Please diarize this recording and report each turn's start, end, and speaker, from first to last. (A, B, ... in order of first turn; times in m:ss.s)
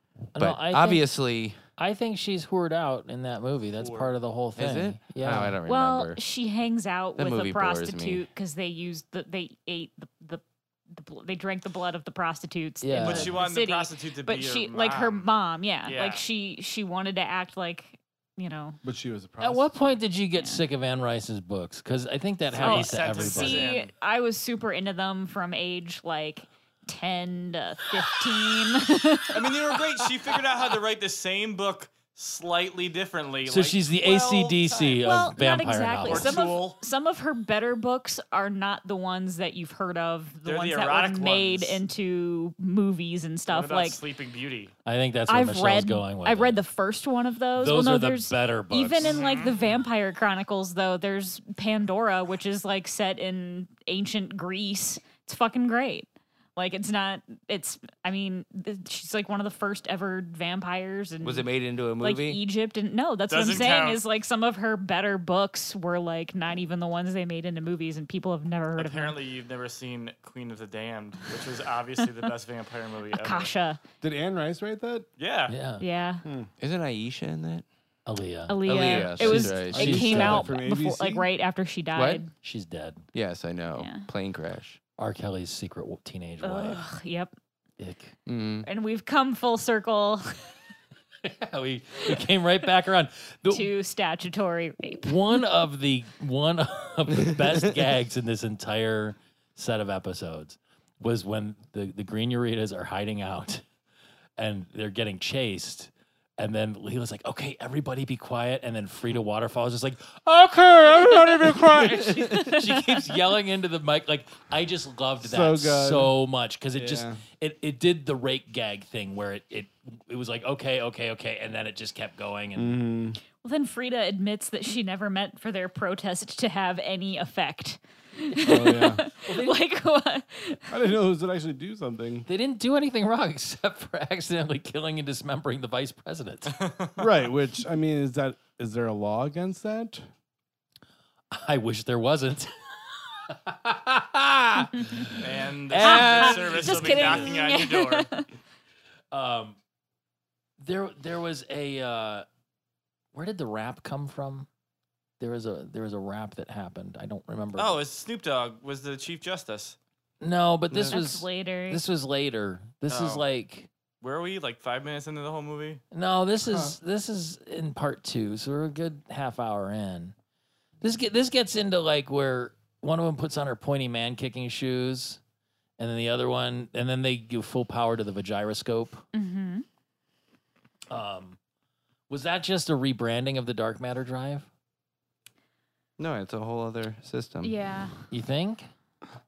0:00.4-0:01.1 A
0:00.4-0:01.6 B
0:01.8-0:05.6 A
0:03.8-0:04.1 C
0:04.6-0:06.2 B
0:05.7-0:18.8 D
0:07.2-0:08.3 B
0:12.8-0:13.4 A
0:13.0-0:15.3 C
0:15.9-0:16.2 C
0:18.8-0:20.0 E
0:19.4-0:23.7 A
0:20.4-0:20.6 D
0:22.5-0:23.9 C
0:22.6-0:29.4 D
0:29.3-0:35.3 C
0:33.5-0:36.5 A
0:35.0-0:44.0 D
0:36.1-0:36.8 C
0:40.5-0:41.8 C
0:43.5-0:44.7 C
0:44.8-0:46.6 A
0:45.3-1:09.2 D
0:47.6-0:49.2 A
0:49.0-0:49.5 C
1:01.2-1:02.4 B
1:03.3-1:04.0 C
1:08.8-1:13.5 C
1:13.1-1:13.8 D
1:14.0-1:15.1 E
1:15.2-1:15.6 C
1:15.5-1:15.8 A
1:15.8-1:16.2 D
1:16.2-1:16.5 E
1:16.6-1:17.7 B
1:18.1-1:20.6 A
1:18.5-1:22.3 D
1:18.7-1:20.1 B
1:19.7-1:21.3 E
1:22.0-1:22.2 B
1:22.3-1:23.1 A
1:23.1-1:24.8 B
1:23.8-1:24.1 D
1:25.0-1:26.8 A
1:26.4-1:27.3 D
1:27.8-1:28.2 A
1:28.3-1:28.7 B
1:28.6-1:30.5 D
1:31.2-1:33.7 A
1:33.5-1:35.4 D
1:35.0-1:43.6 A
1:44.4-2:02.8 A
1:55.2-1:56.2 E
1:56.8-1:57.2 E
2:02.6-2:03.2 E
2:03.4-2:10.7 D
2:08.4-2:09.0 E
2:09.1-2:09.6 A
2:10.7-2:12.3 E
2:12.3-2:16.6 A
2:16.5-2:17.0 C
2:17.0-2:20.1 E
2:21.3-2:27.4 A
2:24.8-2:25.0 D
2:25.2-2:28.1 C
2:25.8-2:28.3 D
2:29.1-2:29.6 A
2:30.6-2:32.3 A
2:33.1-2:34.5 A
2:35.2-2:37.8 A
2:37.6-2:39.8 C
2:40.2-2:43.7 A
2:40.7-2:41.0 B
2:40.9-2:41.8 D
2:42.9-2:43.2 C
2:44.0-2:45.8 C
2:45.9-2:50.2 A
2:46.5-2:46.8 E
2:50.8-2:55.2 A
2:55.8-2:59.0 A
2:59.1-2:59.6 D
3:00.9-3:01.4 A
3:02.1-3:04.5 A
3:06.0-3:07.6 B
3:07.4-3:08.0 D
3:08.1-3:08.7 A